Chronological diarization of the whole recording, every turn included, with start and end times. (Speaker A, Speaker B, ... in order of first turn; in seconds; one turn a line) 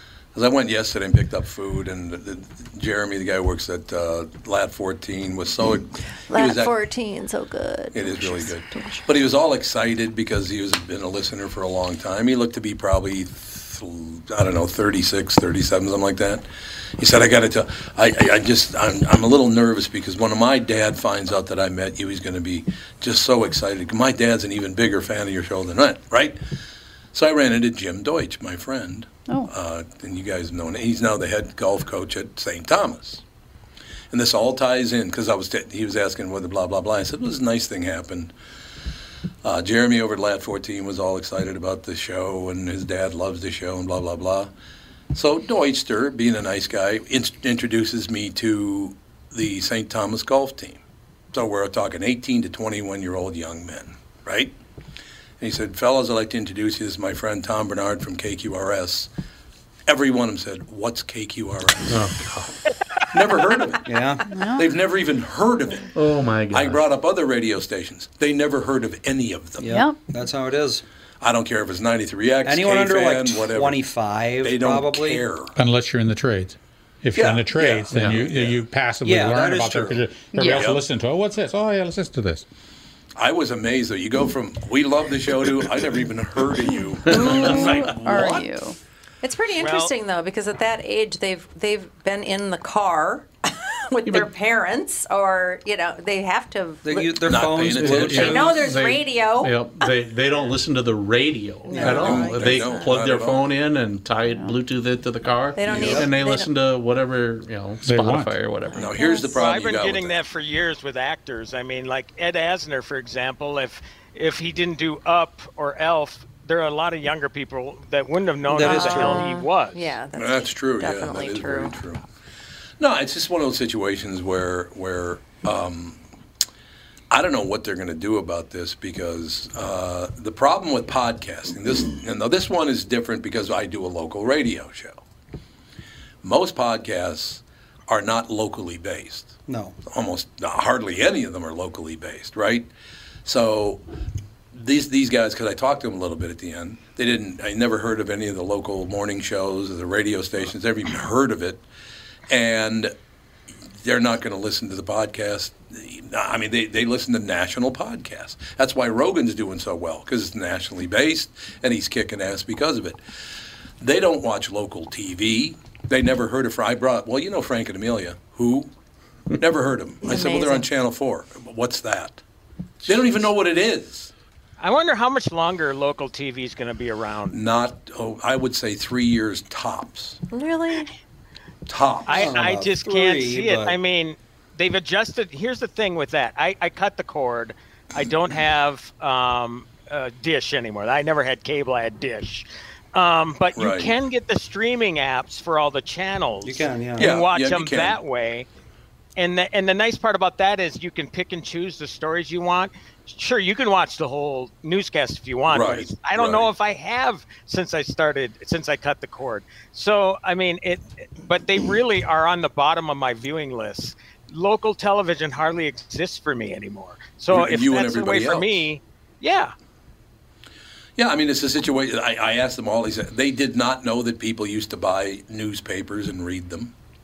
Speaker A: 0.3-6.8
Speaker B: 6.3-9.1
Speaker A: 7.9-16.4
Speaker A: 17.0-26.4
Speaker A: 27.1-33.2
Speaker A: 34.1-38.3
Speaker A: 39.4-44.5
Speaker A: 45.1-50.8
Speaker A: 51.3-54.5
Speaker A: 55.4-59.1
Speaker A: 59.9-62.2
Speaker C: 61.9-62.5
Speaker A: 63.1-63.9
Speaker D: 63.9-64.2
Speaker E: 64.2-64.7
Speaker A: 64.5-65.9
Speaker C: 65.9-66.8
Speaker A: 66.5-69.7
Speaker E: 69.6-70.0
Speaker D: 69.6-70.8
Speaker A: 71.2-73.9
Speaker D: 72.4-75.2
Speaker A: 74.4-75.5
Speaker F: 75.5-82.4
Speaker A: 77.1-78.6
Speaker C: 77.9-78.2
Speaker D: 79.0-80.0
Speaker E: 80.3-80.7
Speaker A: 80.4-80.8
Speaker A: 83.2-88.5
Speaker E: 87.1-88.8
Speaker B: 87.2-87.9
Speaker B: 89.2-97.2
Speaker G: 89.5-89.9
Speaker D: 96.8-98.6
Speaker A: 97.2-98.6
Speaker C: 97.7-108.9
Speaker B: 98.1-99.6
Speaker B: 101.7-102.8
Speaker D: 101.7-102.3
Speaker A: 101.8-103.5
Speaker E: 104.3-104.6
Speaker B: 105.5-106.5
Speaker D: 105.7-106.1
Speaker F: 107.8-108.3
Speaker A: 108.7-110.2
Speaker B: 108.8-109.4
Speaker G: 109.3-120.0
Speaker D: 118.5-119.3
Speaker B: 118.6-121.8
Speaker A: 120.2-122.0
Speaker A: 122.8-126.0
Speaker A: 127.1-135.0
Speaker A: 136.2-142.7
Speaker D: 139.5-139.8
Speaker A: 143.2-143.8
Speaker A: 144.5-151.6
Speaker A: 152.3-152.9
Speaker A: 153.7-163.0
Speaker A: 163.8-168.7
Speaker A: 169.4-172.2
Speaker B: 170.0-170.7
Speaker A: 172.8-174.1
Speaker G: 174.6-177.4
Speaker A: 177.3-180.2
Speaker B: 180.3-180.9
Speaker A: 181.7-182.3
Speaker G: 182.1-198.5
Speaker D: 182.1-183.8
Speaker A: 193.5-193.9
Speaker D: 196.4-197.1
Speaker A: 197.0-198.0
Speaker G: 199.2-219.5
Speaker A: 205.5-206.5
Speaker A: 217.3-218.7
Speaker A: 221.0-226.7